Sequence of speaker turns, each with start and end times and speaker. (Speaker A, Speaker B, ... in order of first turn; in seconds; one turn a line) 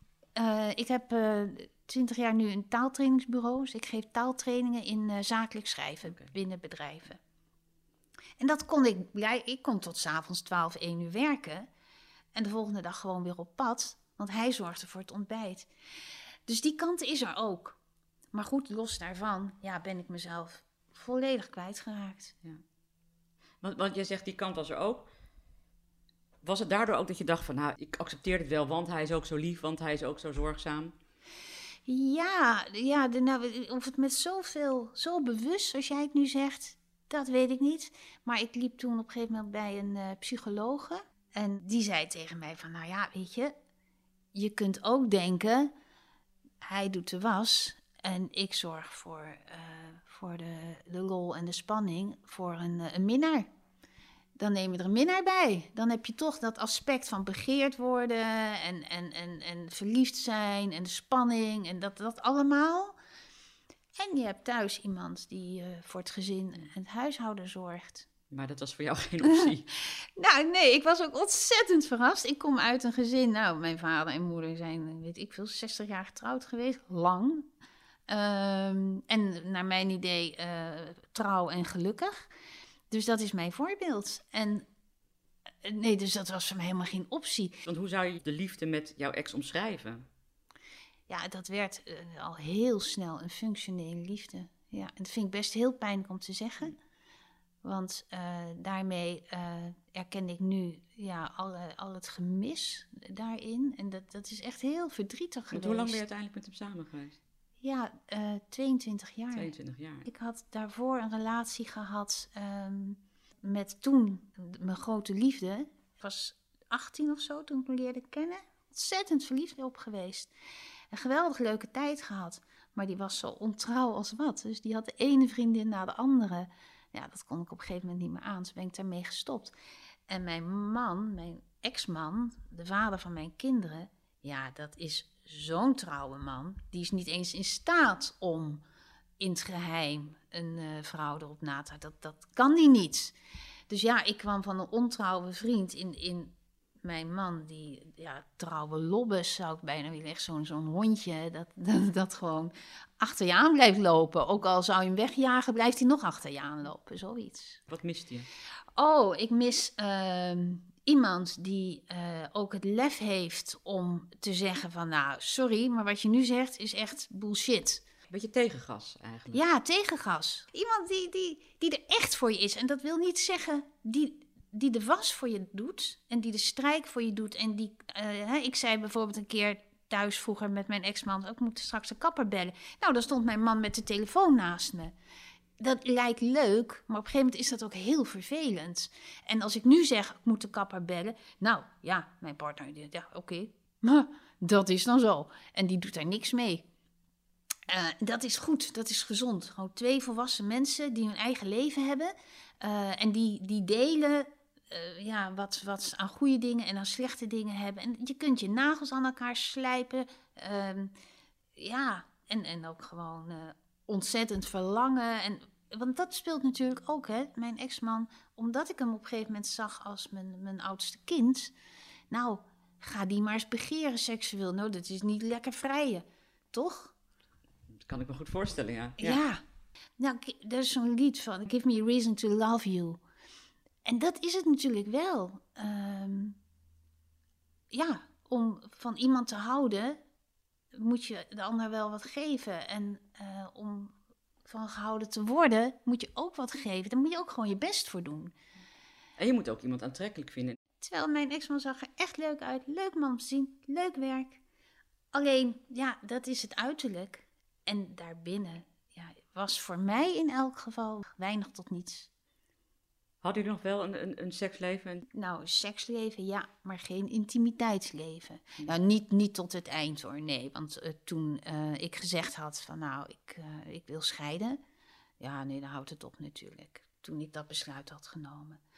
Speaker A: 0.3-7.2
Speaker A: 8.4-11.7
Speaker A: 12.3-15.7
Speaker A: 16.4-17.8
Speaker A: 18.3-22.3
Speaker B: 23.6-25.1
Speaker B: 26.4-30.9
Speaker A: 31.9-43.5
Speaker A: 44.3-45.7
Speaker A: 46.6-53.5
Speaker A: 54.4-62.9
Speaker A: 64.0-68.1
Speaker B: 68.3-69.7
Speaker A: 69.2-77.5
Speaker A: 78.1-82.3
Speaker A: 82.9-84.6
Speaker A: 85.6-87.6
Speaker B: 87.6-90.1
Speaker A: 91.1-96.7
Speaker A: 97.6-106.0
Speaker B: 105.5-107.2
Speaker A: 107.6-109.5
Speaker B: 109.3-110.1
Speaker A: 110.0-120.3
Speaker A: 120.9-129.5
Speaker A: 130.1-138.6
Speaker A: 139.2-143.1
Speaker A: 143.7-157.6
Speaker B: 157.7-158.3
Speaker A: 158.8-167.8
Speaker B: 168.1-169.4
Speaker A: 169.3-184.9
Speaker A: 185.6-196.7
Speaker A: 197.7-210.9
Speaker A: 211.6-221.5
Speaker A: 222.1-226.9
Speaker B: 227.7-229.2
Speaker A: 229.0-229.4
Speaker A: 230.0-233.0
Speaker A: 233.8-236.4
Speaker A: 237.7-240.0
Speaker A: 240.7-243.9
Speaker A: 244.4-248.3
Speaker B: 249.2-250.6
Speaker A: 250.8-254.4
Speaker A: 255.1-262.1
Speaker B: 263.2-265.1
Speaker A: 265.1-274.6
Speaker A: 275.2-278.6